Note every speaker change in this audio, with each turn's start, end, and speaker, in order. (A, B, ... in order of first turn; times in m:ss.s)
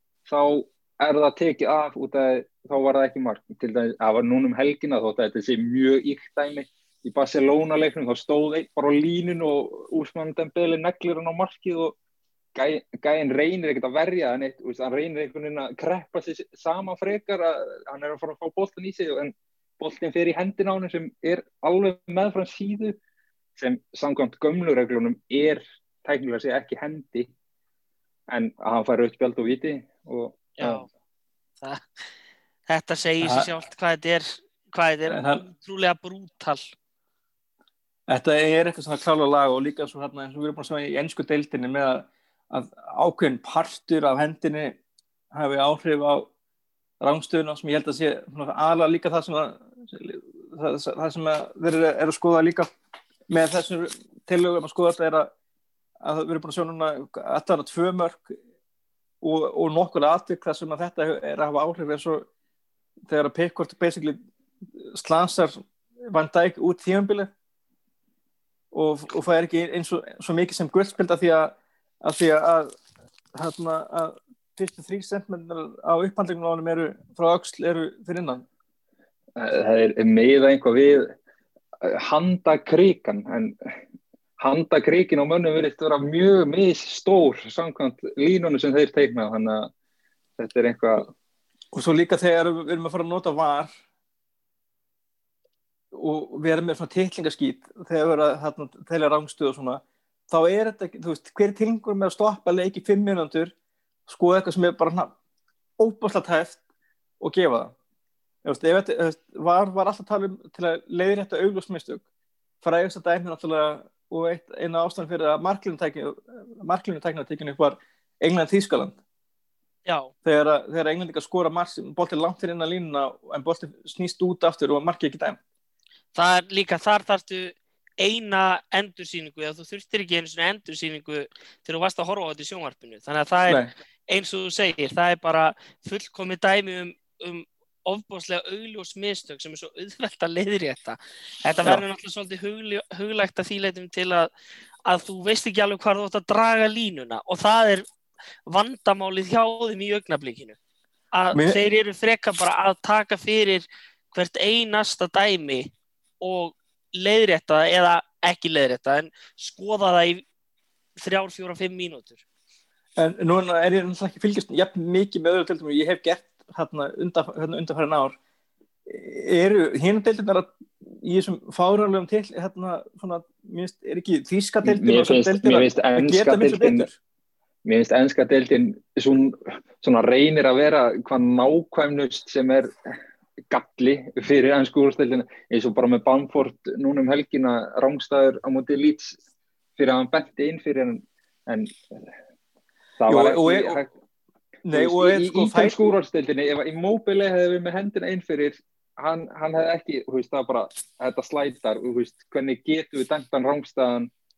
0:00.3-0:12.0 A
0:12.5-0:23.0 A
0:23.6-0:27.3 A
0:28.3-0:30.8 A
0:30.6-0:30.9 B
0:32.7-0:36.6 B
0:33.2-0:33.5 C
0:35.1-0:35.4 C
0:38.1-0:44.8 C
0:45.3-0:46.3 C
0:47.0-0:52.7 C
0:53.3-0:55.3 C
0:56.0-0:58.3 C
0:59.2-1:02.3 C
1:03.0-1:04.2 C
1:04.8-1:07.3 C
1:08.7-1:12.7 C
1:13.3-1:18.4 C
1:19.4-1:21.1 A
1:21.8-1:23.6 A
1:24.4-1:29.7 A
1:30.4-1:31.1 A
1:31.7-1:33.7 C
1:35.9-1:43.5 C
1:44.1-1:45.1 C
1:45.8-1:46.6 C
1:47.2-1:47.7 C
1:48.4-1:52.0 C
1:52.6-1:59.0 C
1:59.8-2:00.1 B
2:00.2-2:05.4 C
2:06.1-2:24.3 B
2:24.8-2:27.8 B
2:28.5-2:30.6 B
2:31.1-2:35.7 B
2:31.3-2:31.6 C
2:36.2-2:40.2 B
2:41.0-2:42.2 B
2:43.0-2:48.2 C
2:48.8-2:56.9 C
2:54.6-2:56.9 A
2:57.6-3:02.7 A
3:03.5-3:09.2 A
3:09.8-3:11.7 A
3:13.0-3:13.9 A
3:13.1-3:13.8 C
3:14.6-3:15.9 C
3:14.7-3:24.1 A